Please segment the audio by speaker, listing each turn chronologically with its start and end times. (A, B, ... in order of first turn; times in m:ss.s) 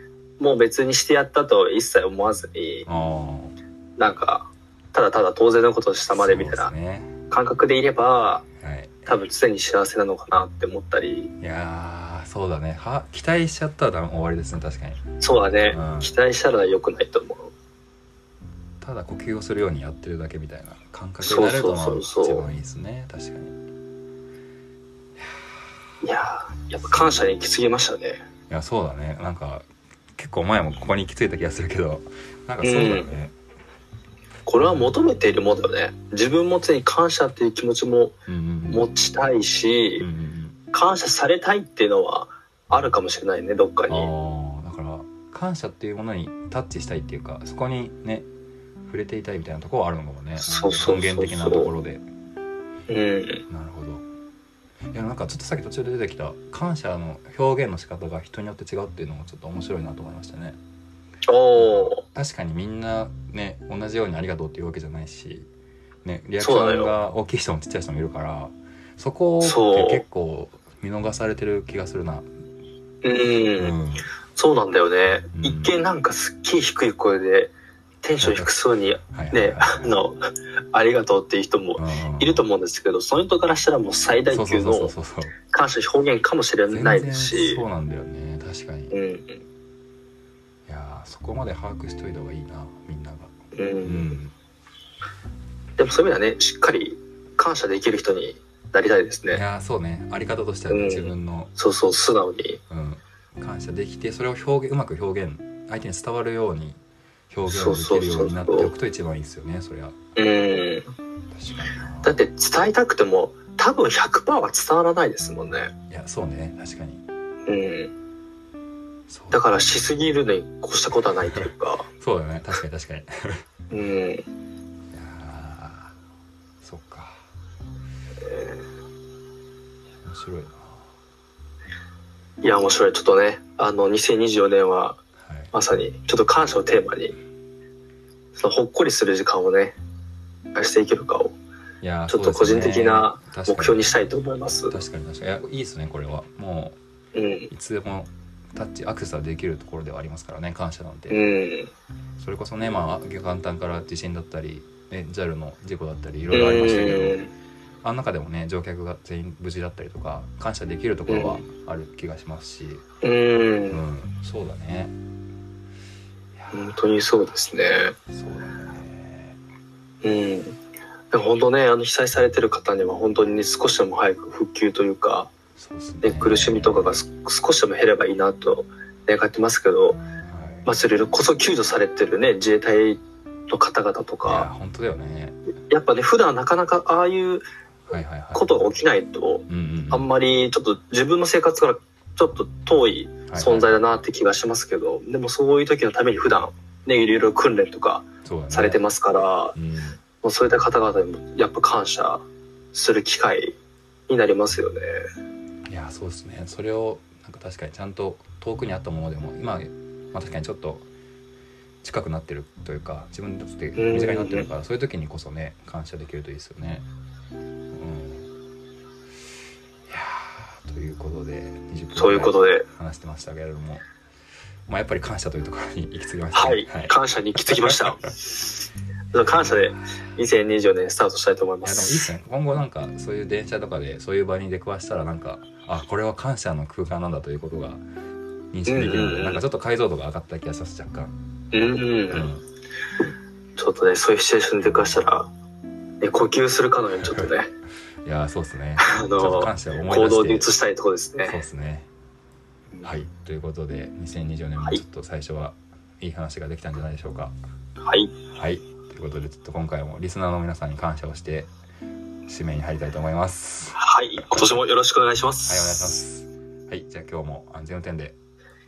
0:00.4-0:02.9 A
0:02.8-0:03.5 B
0:04.0-0:06.7 A
0:06.1-0:07.2 B
0:07.3-0:08.4 A
0:08.6-0:09.1 B
0:09.0-0:11.3 A
0:11.4-0:15.0 B
0:15.2-0:17.5 A
0:15.7-0:16.1 B
0:18.8-0:23.6 B
0:21.2-0:22.5 A
0:26.0-0:28.2 A
0:28.5-0:33.3 B
0:32.6-0:33.1 A
0:34.4-0:38.2 A
0:38.3-0:38.9 B
0:38.7-0:40.1 A
0:40.0-0:40.6 B
0:40.7-0:44.1 A
0:43.9-0:48.3 B
0:48.8-0:52.0 B
0:50.4-0:51.7 A
0:52.9-0:53.4 A
0:53.5-0:54.0 B
0:54.9-1:00.6 B
1:01.2-1:02.0 A
1:01.6-1:05.5 B
1:06.0-1:12.3 B
1:06.4-1:06.9 A
1:09.4-1:10.0 A
1:13.0-1:13.8 A
1:13.5-1:14.0 B
1:14.4-1:17.5 A
1:15.3-1:15.7 B
1:18.0-1:24.9 A
1:18.2-1:20.0 B
1:21.8-1:22.4 B
1:24.3-1:25.3 B
1:25.5-1:27.6 A
1:26.7-1:28.9 B
1:28.9-1:29.4 A
1:30.7-1:33.3 B
1:33.5-1:34.2 A
1:33.8-1:34.3 B
1:35.8-1:39.4 A
1:39.3-1:41.5 B
1:40.7-1:42.6 A
1:42.7-1:46.8 B
1:47.3-1:50.0 B
1:47.5-1:48.7 A
1:50.2-1:50.9 A
1:51.3-1:52.2 B
1:52.0-1:55.7 A
1:55.9-1:57.0 B
1:57.5-1:57.9 A
1:59.1-1:59.4 B
1:59.3-2:01.8 A
2:02.0-2:03.4 B
2:03.7-2:04.2 A
2:04.9-2:05.9 B
2:06.6-2:07.2 B
2:08.3-2:08.6 A
2:10.0-2:10.8 B
2:12.4-2:15.0 A
2:15.2-2:15.5 B
2:15.5-2:17.1 A
2:18.3-2:19.8 A
2:20.5-2:21.3 A
2:21.8-2:23.8 B
2:22.1-2:24.7 A
2:24.7-2:26.8 B
2:27.1-2:27.5 A
2:27.5-2:31.2 B
2:31.1-2:31.7 A
2:32.2-2:37.2 B
2:36.3-2:37.3 A
2:37.8-2:42.8 B
2:41.1-2:41.4 A
2:43.0-2:43.8 A
2:43.7-2:44.9 B
2:46.5-2:47.9 A
2:48.1-2:49.4 B
2:50.0-2:50.6 A
2:51.1-2:55.3 A
2:55.6-2:57.0 B
2:56.0-3:00.0 A
3:00.3-3:00.7 B
3:00.6-3:04.5 A
3:04.2-3:05.4 B
3:05.7-3:07.4 A
3:07.9-3:08.4 B
3:08.3-3:19.6 A
3:09.5-3:10.1 B
3:13.3-3:13.8 B
3:18.2-3:18.8 B
3:19.5-3:20.0 B
3:20.2-3:23.6 A
3:24.1-3:25.0 A
3:25.7-3:30.9 B
3:31.8-3:36.8 B
3:33.8-3:34.5 A
3:37.7-3:38.3 B
3:39.9-3:43.8 B
3:42.0-3:42.6 A
3:44.7-3:47.0 B
3:46.3-3:52.1 A
3:47.5-3:47.8 B
3:49.1-3:49.8 B
3:51.6-3:57.8 B
3:58.5-4:01.2 B
3:58.7-3:59.4 A
4:01.5-4:02.3 A
4:02.1-4:02.4 B
4:03.6-4:05.3 A
4:06.0-4:07.5 A
4:08.0-4:10.5 B
4:08.8-4:11.4 A
4:11.3-4:11.9 B
4:12.8-4:17.3 B
4:17.8-4:18.1 A
4:18.3-4:21.5 B
4:22.3-4:23.8 B
4:23.8-4:26.0 A
4:25.5-4:28.1 B